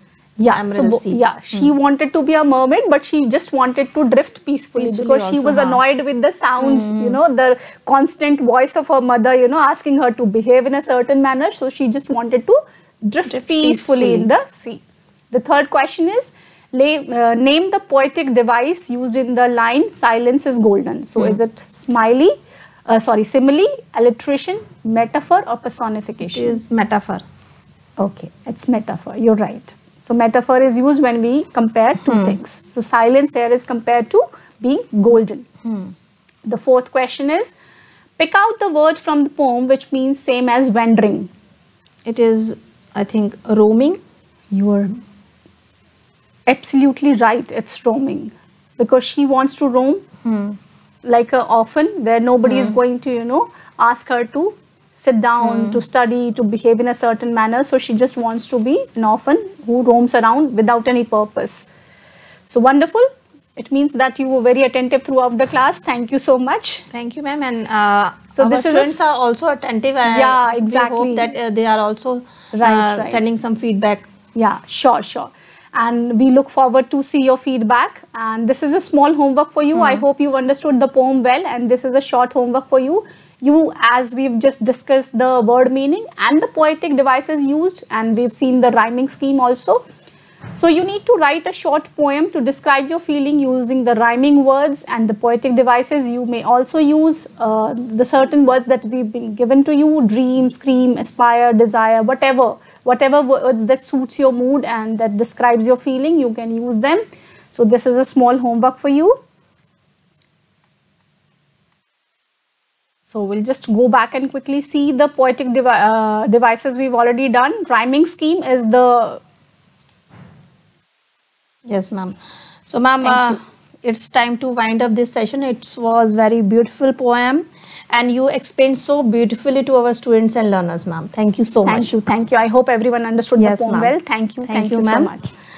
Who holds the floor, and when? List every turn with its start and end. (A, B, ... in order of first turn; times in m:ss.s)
0:00.4-0:22.3 A
0:00.5-0:01.7 B
0:04.6-0:05.8 B
0:06.6-0:07.2 B
0:13.3-0:14.3 B
0:22.9-0:26.6 A
0:26.2-0:27.2 B
0:28.0-0:35.4 A
0:32.0-0:32.4 B
0:35.6-0:35.9 B
0:36.4-0:37.5 A
0:38.2-0:41.3 A
0:42.0-0:44.0 B
0:44.5-0:45.0 A
0:46.5-0:50.0 A
0:50.2-0:50.6 B
0:51.0-1:01.6 A
0:52.4-0:52.8 B
0:55.4-0:55.8 B
1:02.5-1:06.8 A
1:06.9-1:14.1 B
1:08.3-1:09.0 A
1:10.0-1:11.3 A
1:12.5-1:13.2 A
1:14.3-1:29.8 A
1:19.7-1:20.0 B
1:30.5-1:49.2 A
1:53.1-1:59.2 A
2:01.6-2:11.9 B
2:03.0-2:03.4 A
2:11.6-2:15.3 A
2:13.4-2:13.9 B
2:14.4-2:15.1 B